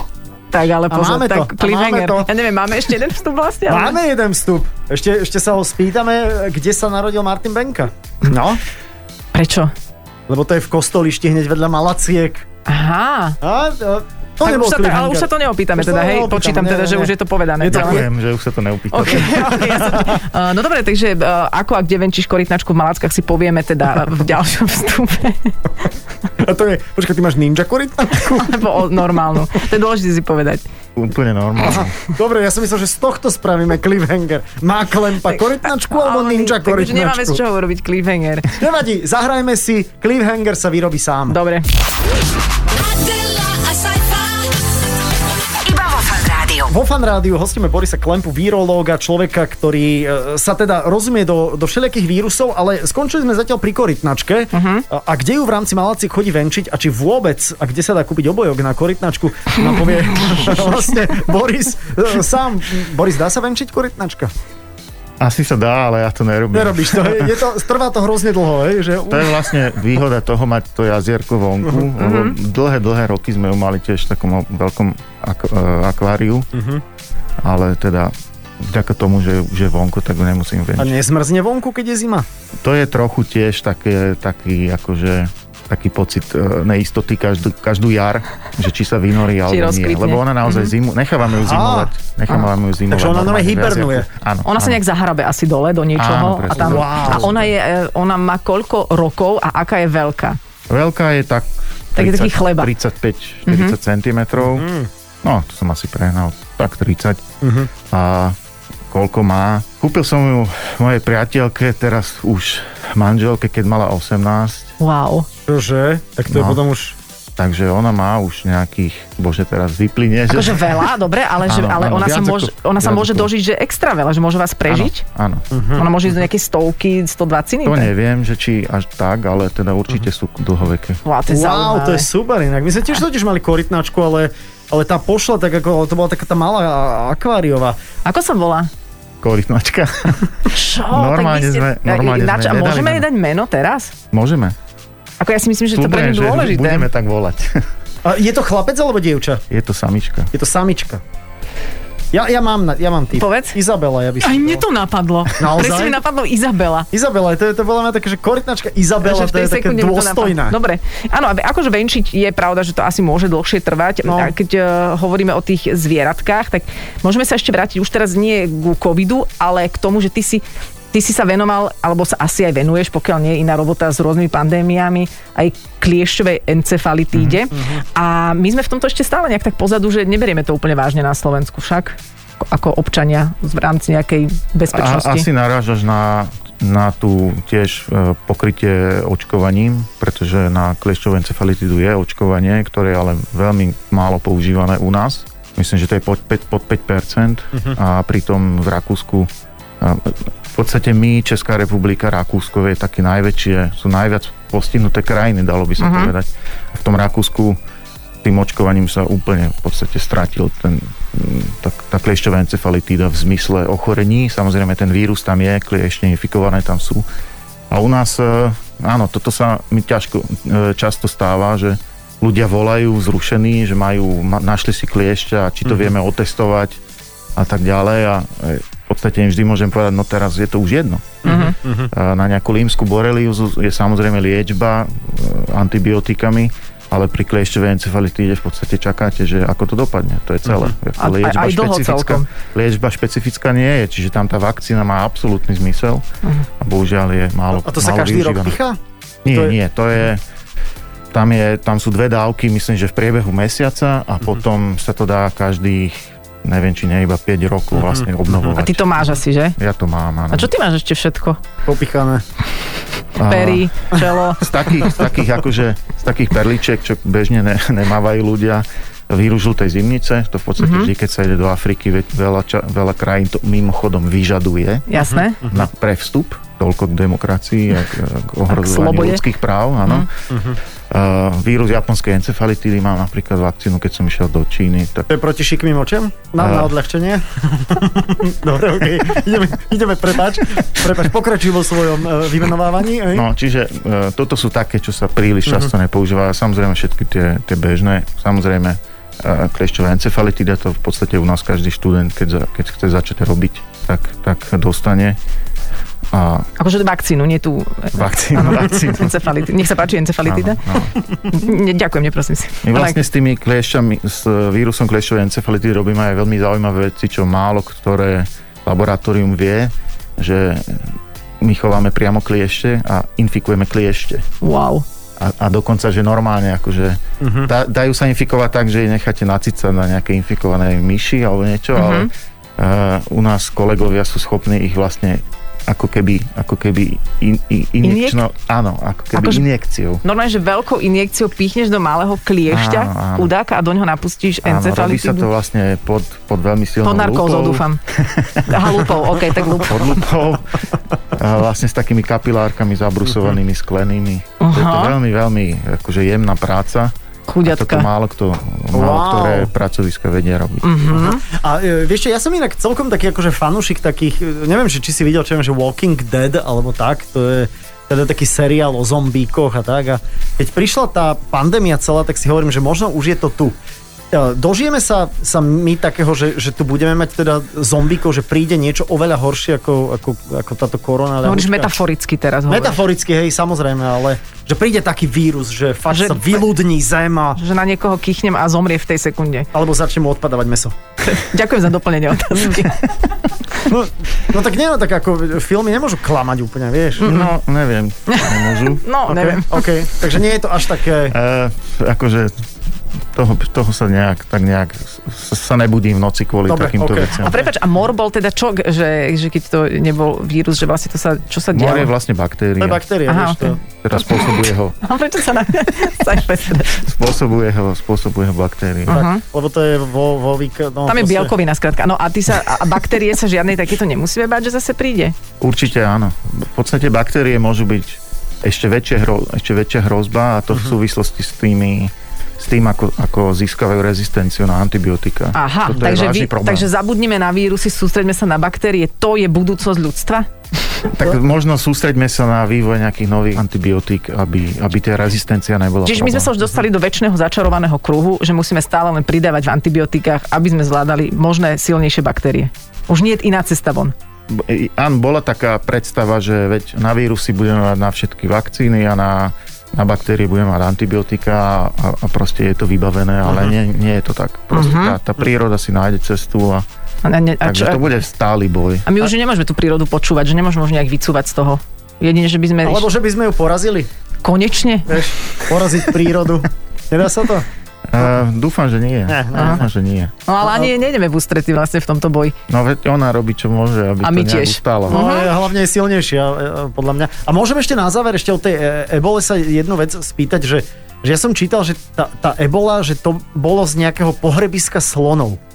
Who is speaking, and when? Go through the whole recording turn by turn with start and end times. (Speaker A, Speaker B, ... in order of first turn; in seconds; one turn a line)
Speaker A: 0.5-4.0
Speaker B: 0.9-2.3
Speaker B: 3.7-8.6
Speaker A: 9.3-9.7
Speaker B: 10.3-12.4
Speaker A: 12.7-13.4
Speaker B: 13.4-18.1
Speaker A: 14.4-18.1
Speaker C: 17.7-19.7
Speaker A: 18.9-25.6
Speaker B: 19.1-20.2
Speaker B: 26.4-28.6
Speaker A: 28.2-30.6
Speaker C: 31.0-31.9
Speaker B: 31.6-37.4
Speaker A: 35.9-38.5
Speaker B: 38.5-41.4
Speaker A: 41.3-41.7
Speaker A: 42.7-44.6
Speaker A: 45.7-46.5
Speaker B: 46.6-64.3
Speaker A: 54.5-54.9
Speaker C: 65.2-67.3
Speaker B: 66.5-69.5
Speaker C: 69.1-76.5
Speaker A: 72.0-72.4
Speaker B: 76.5-76.8
Speaker C: 77.4-81.0
Speaker B: 80.8-82.3
Speaker C: 82.6-94.8
Speaker A: 89.5-90.7
Speaker B: 91.3-91.9
Speaker B: 92.9-94.1
Speaker A: 94.5-100.4
Speaker C: 96.0-97.5
Speaker B: 96.5-97.4
Speaker C: 100.7-104.7
Speaker A: 102.0-102.7
Speaker A: 103.5-103.8
Speaker B: 104.4-104.9
Speaker C: 105.2-107.2
Speaker B: 107.4-107.7
Speaker C: 107.9-108.4
Speaker C: 108.9-114.8
Speaker A: 114.8-115.3
Speaker B: 115.5-117.0
Speaker C: 116.3-116.6
Speaker C: 117.4-120.9
Speaker A: 120.3-125.0
Speaker C: 121.5-123.3
Speaker C: 124.7-125.5
Speaker B: 125.5-125.9
Speaker A: 125.8-127.9
Speaker C: 127.6-131.0
Speaker A: 131.0-132.1
Speaker B: 131.3-137.8
Speaker A: 138.1-138.7
Speaker C: 139.2-140.3
Speaker A: 140.5-143.9
Speaker C: 140.9-143.1
Speaker C: 144.1-144.6
Speaker A: 145.2-146.9
Speaker C: 145.7-147.6
Speaker B: 148.0-149.4
Speaker C: 149.5-150.3
Speaker B: 150.3-151.0
Speaker B: 152.1-154.7
Speaker A: 153.1-153.6
Speaker A: 154.2-156.9
Speaker B: 155.4-156.0
Speaker B: 156.9-160.6
Speaker A: 159.0-185.3
Speaker B: 164.1-164.3
Speaker C: 177.2-177.4
Speaker B: 177.5-177.8
Speaker C: 184.7-199.3
Speaker C: 199.8-207.6
Speaker A: 205.8-206.1
Speaker C: 208.2-217.0
Speaker C: 217.7-226.8
Speaker B: 225.7-225.9
Speaker C: 227.4-246.0
Speaker A: 231.2-231.6
Speaker B: 231.2-231.9
Speaker A: 241.0-242.3
Speaker C: 246.6-248.6
Speaker B: 247.6-249.6
Speaker C: 249.2-250.2
Speaker C: 251.1-259.0
Speaker B: 257.8-258.1
Speaker A: 258.5-259.6
Speaker C: 259.6-260.5
Speaker A: 260.3-261.4
Speaker B: 261.7-262.2
Speaker C: 263.2-280.1
Speaker A: 263.2-265.0
Speaker A: 270.6-270.9
Speaker A: 274.9-275.5
Speaker B: 275.0-275.5
Speaker A: 278.5-279.2
Speaker B: 280.3-280.6
Speaker C: 280.9-285.1
Speaker B: 285.1-293.3
Speaker C: 286.4-286.7
Speaker C: 293.1-305.2
Speaker C: 306.1-306.5
Speaker A: 306.6-310.6
Speaker C: 307.9-309.2
Speaker C: 310.2-311.0
Speaker A: 311.3-313.0
Speaker C: 312.6-324.2
Speaker A: 324.4-324.9
Speaker C: 325.2-340.0
Speaker B: 327.2-327.5
Speaker A: 331.8-332.1
Speaker A: 337.8-338.2
Speaker A: 339.1-339.4
Speaker A: 340.0-345.3
Speaker C: 342.5-343.3
Speaker C: 344.4-348.8
Speaker A: 346.8-347.8
Speaker A: 348.4-350.1
Speaker C: 349.5-350.6
Speaker C: 351.1-356.9
Speaker A: 354.4-354.9
Speaker A: 357.3-357.9
Speaker C: 357.4-360.9
Speaker B: 358.7-359.5
Speaker A: 360.6-361.2
Speaker B: 361.0-373.6
Speaker B: 374.1-381.8
Speaker A: 381.2-382.8
Speaker B: 382.5-387.4
Speaker A: 385.9-386.4
Speaker A: 387.4-389.5
Speaker B: 389.5-390.8
Speaker A: 391.0-393.7
Speaker B: 393.7-397.3
Speaker C: 397.0-398.8
Speaker A: 398.1-399.7
Speaker B: 399.1-401.2
Speaker C: 401.1-402.4
Speaker C: 403.1-407.4
Speaker B: 406.5-407.4
Speaker A: 407.2-411.9
Speaker C: 411.5-412.8
Speaker B: 412.6-413.6
Speaker A: 413.1-416.8
Speaker C: 413.8-414.8
Speaker C: 416.7-419.0
Speaker A: 418.9-419.2
Speaker B: 418.9-421.4
Speaker A: 420.9-425.1
Speaker C: 425.4-436.7
Speaker A: 435.3-440.9
Speaker C: 440.9-446.3
Speaker A: 445.9-453.9
Speaker C: 454.3-466.6
Speaker B: 463.3-463.6
Speaker A: 464.5-465.0
Speaker A: 467.0-467.9
Speaker C: 467.4-469.1
Speaker A: 468.9-472.9
Speaker B: 472.6-473.9
Speaker A: 474.2-475.5
Speaker B: 474.9-477.5
Speaker C: 477.9-480.1
Speaker B: 479.1-479.7
Speaker A: 479.3-479.6
Speaker A: 480.3-482.4
Speaker B: 480.4-480.7
Speaker C: 482.5-485.1
Speaker A: 484.0-485.3
Speaker B: 484.9-495.4